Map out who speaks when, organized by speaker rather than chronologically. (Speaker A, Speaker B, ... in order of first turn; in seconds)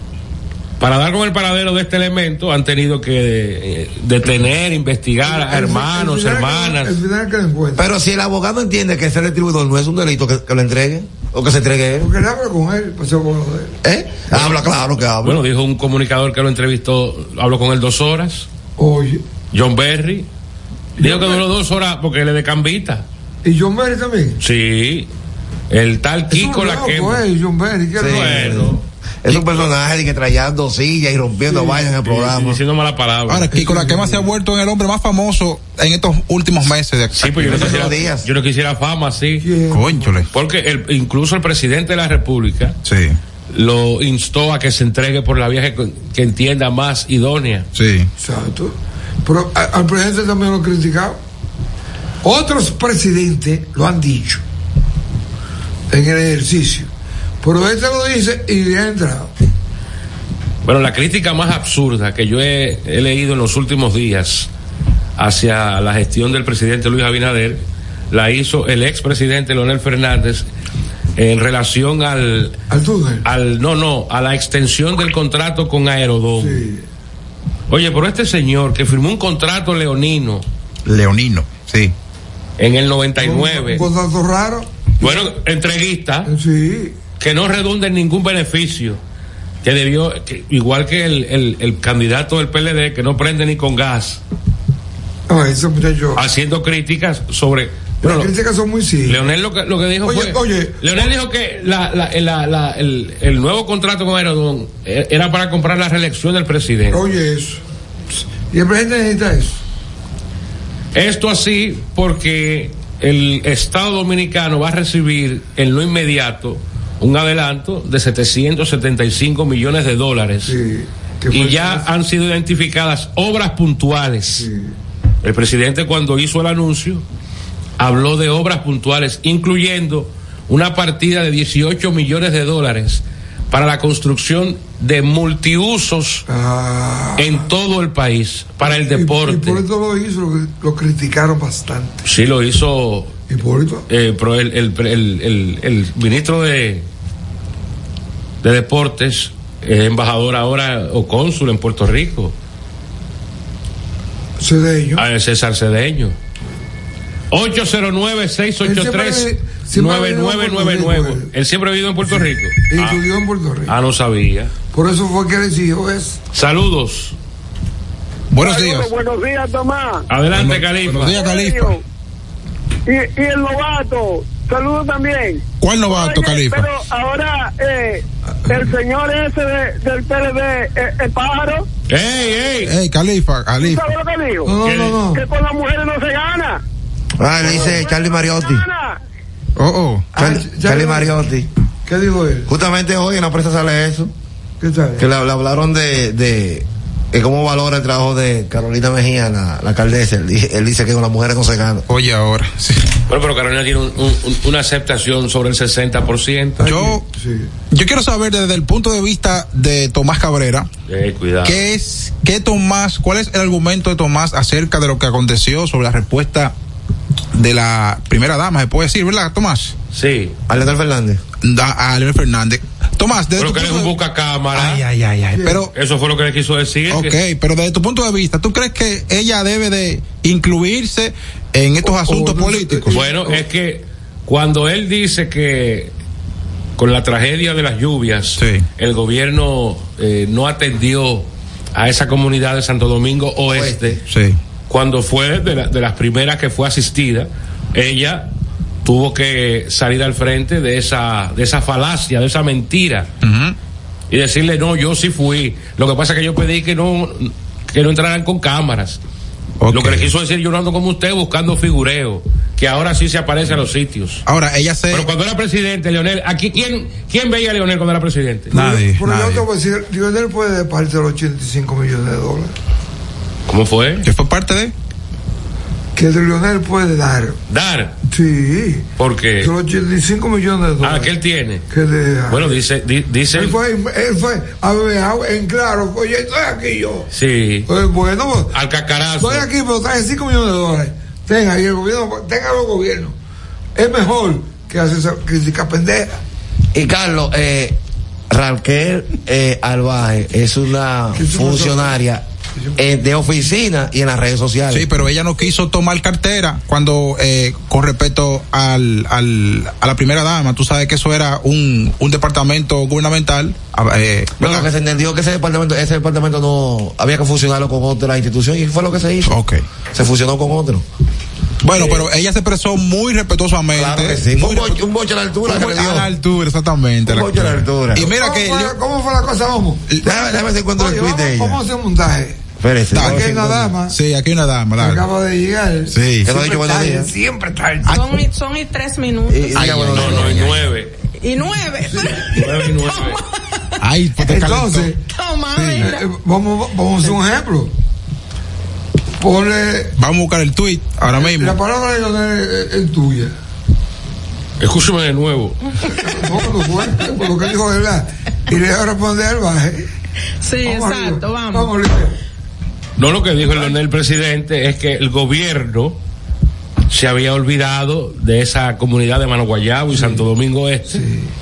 Speaker A: 0.8-7.0, 14.3-14.6, 15.2-18.5, 19.5-20.3, 21.0-23.1, 24.4-25.1, 25.7-27.2, 28.0-28.8, 29.3-29.6, 31.9-33.5, 37.1-39.5, 40.3-42.8, 43.5-47.7, 60.6-64.5, 65.2-70.5, 71.2-72.6, 73.2-76.6, 77.7-80.4, 82.6-83.9, 85.0-86.3, 87.2-89.0, 89.6-94.2, 96.2-98.3, 99.1-107.0, 110.9-120.6, 121.3-124.5, 125.2-127.0, 127.8-136.2, 137.2-139.6, 142.0-143.2, 143.9-146.9, 148.4-152.3, 155.0-156.2, 157.3-163.0, 163.7-164.5, 166.3-167.2, 170.1-171.2, 181.9-182.7, 184.7-185.0, 203.1-206.6, 210.9-211.7, 219.9-220.4, 223.4-224.8, 225.7-227.2, 232.9-235.9, 236.8-244.0, 244.7-248.3, 248.8-253.1, 254.1-259.0, 259.7-264.2, 264.9-268.5, 273.5-274.1, 277.5-277.9, 279.0-279.5, 280.8-281.6, 282.3-283.6, 287.1-287.7, 288.5-289.5, 321.8-322.0, 339.7-340.9, 342.3-343.2, 354.6-355.6, 363.0-366.0, 366.9-371.0
Speaker B: 5.2-7.8, 12.0-13.8, 18.8-19.2, 21.0-21.4, 23.4-24.4, 26.3-28.7, 31.4-31.9, 33.5-34.3, 39.4-40.1, 48.2-48.7, 49.2-51.2, 52.2-54.4, 55.9-56.9, 57.4-59.3, 72.7-73.3, 76.4-76.8, 83.2-85.3, 86.2-87.0, 95.3-96.2, 98.0-99.2, 100.0-100.8, 106.9-107.6, 108.5-109.6, 120.5-121.8, 124.4-124.7, 136.3-137.5, 138.6-142.1, 143.3-143.9, 154.4-155.1, 158.6-161.3, 162.1-163.8, 164.7-166.2, 184.4-185.2, 187.4-187.8, 190.1-191.1, 191.9-192.5, 194.6-195.1, 206.6-207.5, 225.3-225.7, 231.8-233.4, 268.5-272.5, 275.9-277.4, 278.1-278.9, 279.4-281.1, 281.7-282.6, 283.3-287.1, 287.7-288.6, 289.2-293.1, 293.8-296.2, 301.1-302.0, 328.1-332.5, 333.0-334.0, 334.8-338.0, 341.9-342.3, 344.2-345.0, 345.8-347.7, 349.2-349.9, 351.2-353.3, 356.0-359.9, 360.6-362.2, 369.9-370.2, 370.9-371.3
Speaker C: 7.8-12.1, 13.8-15.4, 28.0-32.6, 37.4-38.3, 187.2-188.7, 190.2-191.5, 192.5-194.1, 195.0-201.9, 220.5-221.2, 243.5-244.0, 296.7-297.8, 298.3-302.2, 302.8-304.9, 314.4-319.4, 319.9-320.9, 323.7-326.1, 327.1-328.1, 330.0-331.6, 332.6-333.4, 336.2-337.1, 339.3-340.6
Speaker D: 33.3-37.9, 39.7-40.3, 42.9-43.2, 47.8-48.1, 80.8-81.9, 168.3-168.9, 170.3-171.8, 175.6-176.7, 182.6-183.8, 189.6-190.1, 201.9-202.9, 206.6-207.0, 207.7-210.7, 211.4-216.6, 217.3-219.7, 221.4-223.9, 224.5-225.7, 226.9-232.9, 238.4-238.7, 244.1-244.4, 253.2-253.6, 259.6-260.1, 264.3-265.1, 268.5-269.5, 274.0-274.7, 304.7-314.7, 319.2-319.6, 321.6-324.9, 325.4-328.8, 332.9-335.0, 335.9-336.3, 339.5-340.6, 343.8-344.9, 345.5-345.9, 350.0-351.6
Speaker E: 168.4-170.0, 171.0-171.8, 172.9-181.7, 183.6-184.6, 185.1-186.6, 187.6-189.0
Speaker F: 337.9-339.7, 341.2-343.2, 345.1-346.1, 360.4-361.7